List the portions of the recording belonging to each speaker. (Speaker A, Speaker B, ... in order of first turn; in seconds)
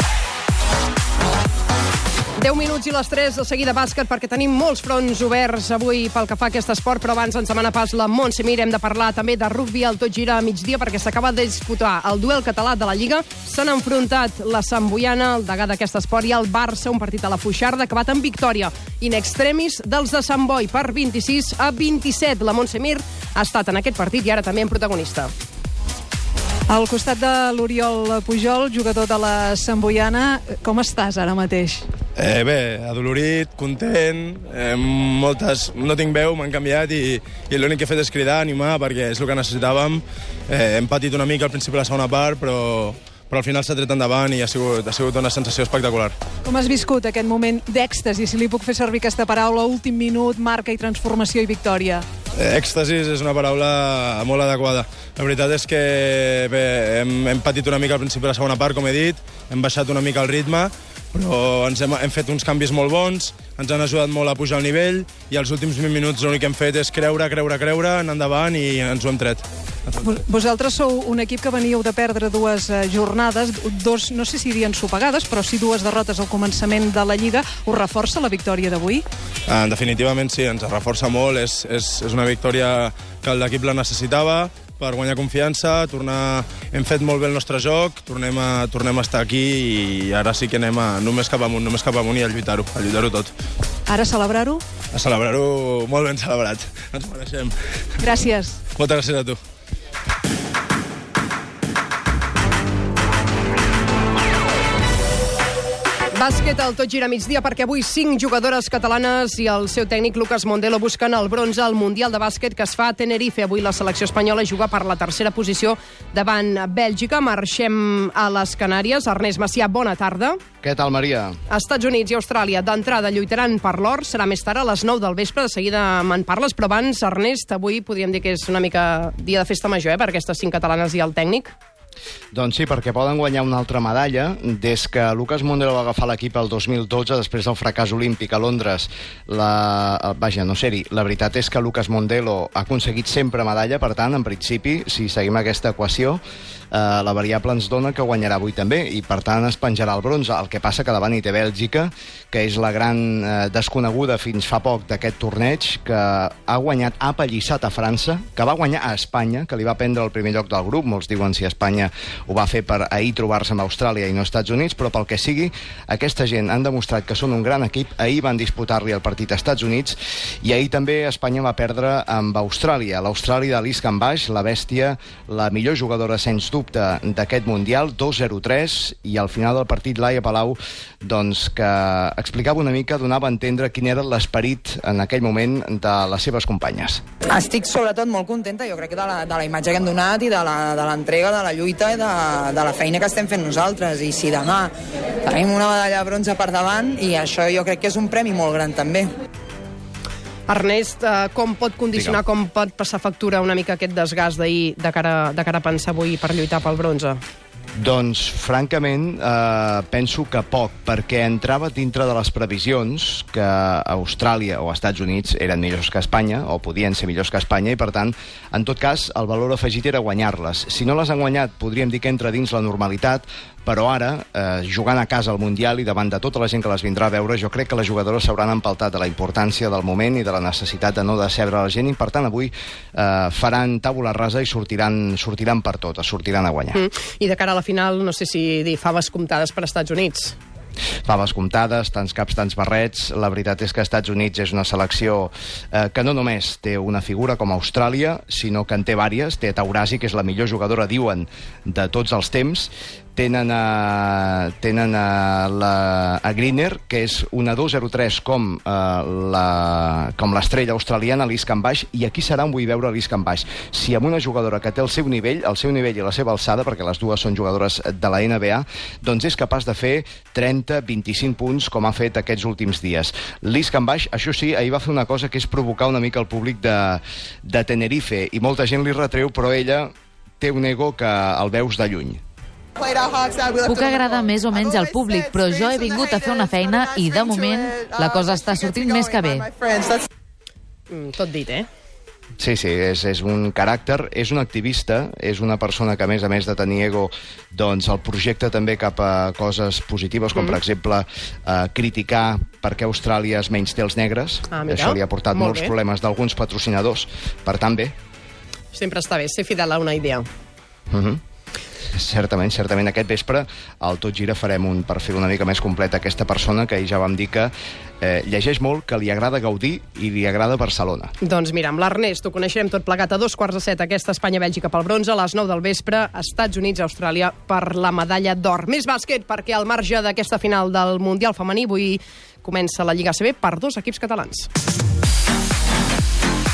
Speaker A: 2.4-25.3, 106.1-120.4, 121.5-131.5, 200.5-207.2, 236.7-240.3, 290.9-291.7, 304.5-305.7, 308.7-310.2, 321.2-334.5
Speaker B: 26.7-31.9, 46.4-52.0, 69.9-79.0, 93.9-94.6, 98.0-98.6
Speaker C: 32.2-46.1, 52.4-69.4, 79.5-93.3, 94.9-97.5, 98.7-99.4
Speaker D: 120.6-121.4, 132.3-146.2, 146.7-187.0, 207.8-236.8, 241.1-282.2, 292.4-307.9, 310.9-311.2, 311.9-321.1
Speaker E: 187.3-194.7, 195.3-199.1
Speaker F: 283.8-285.5, 286.1-287.3, 288.1-289.3